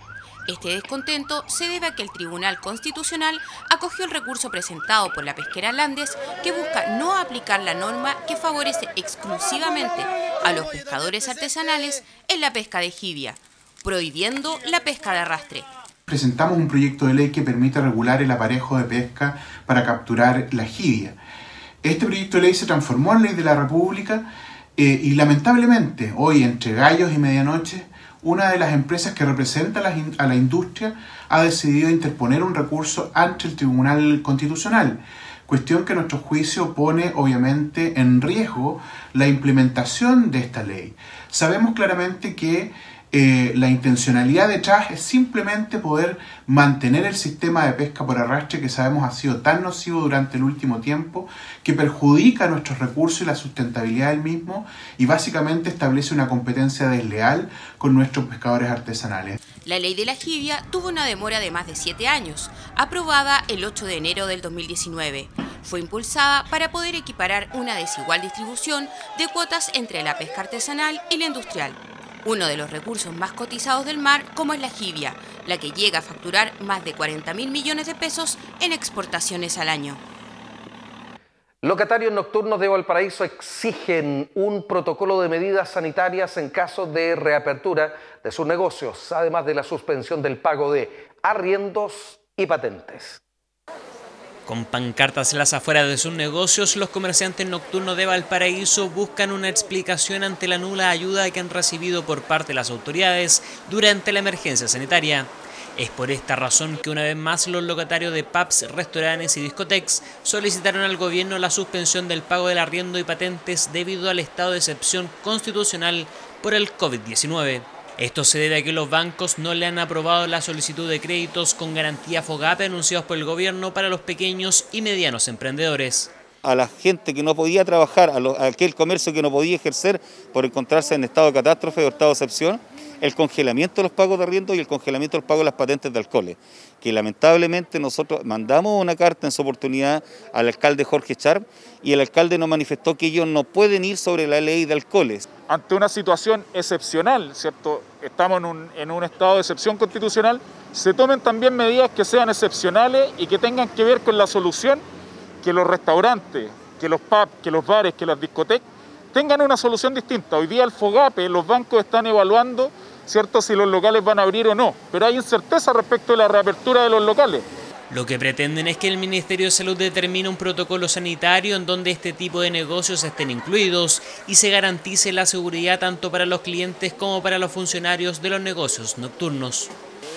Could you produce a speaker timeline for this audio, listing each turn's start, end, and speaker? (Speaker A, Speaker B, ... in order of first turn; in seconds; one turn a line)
Speaker A: 0.5-15.7
Speaker B: 16.1-21.2
Speaker B: 21.8-59.4
Speaker A: 59.6-80.0
Speaker C: 81.6-93.2
Speaker D: 94.5-126.1
Speaker E: 126.4-145.3
Speaker F: 145.5-154.8
Speaker F: 155.4-158.6
Speaker F: 159.1-167.4
Speaker D: 167.9-179.7